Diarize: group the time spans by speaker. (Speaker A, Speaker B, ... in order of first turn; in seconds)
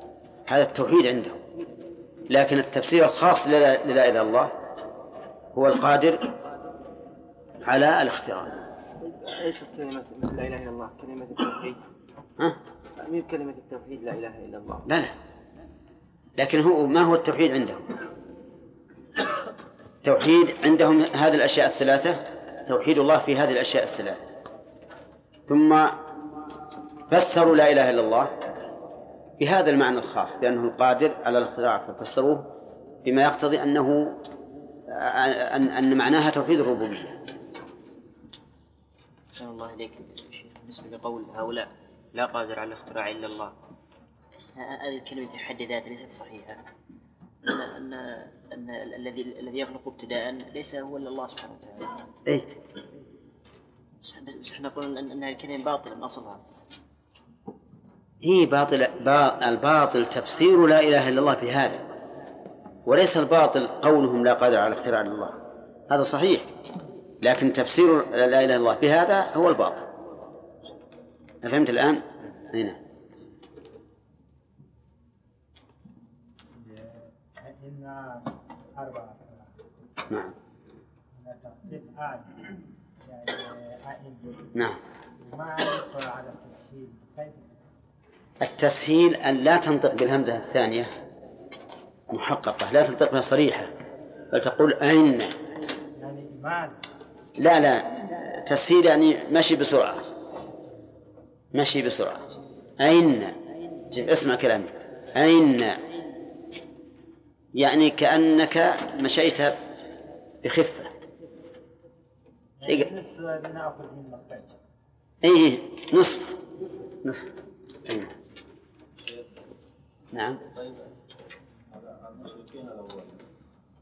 Speaker A: 0.5-1.4, 2.3-4.5, 5.5-6.3, 7.6-8.6, 14.9-15.1, 16.4-17.9, 20.0-24.2, 25.5-26.0, 27.1-28.3, 29.4-32.5, 33.0-34.2, 34.9-37.1, 58.2-61.8, 62.9-65.3, 65.9-66.5, 67.2-69.9, 71.4-72.8, 80.1-80.3, 88.4-90.9, 92.1-93.7, 94.3-95.3, 97.4-100.0, 101.5-102.2, 102.8-103.4, 103.9-105.8, 107.6-109.6, 110.4-110.9, 115.2-116.3, 117.0-117.3, 117.9-118.1, 120.1-120.4
Speaker B: 9.0-11.8, 13.0-14.9
Speaker C: 39.4-43.5, 44.4-46.6, 47.5-52.0, 54.0-56.4
Speaker D: 76.6-79.5, 81.1-82.5, 83.0-84.5, 85.2-87.7, 96.0-96.8, 112.6-114.5
Speaker E: 120.5-120.9, 121.7-123.3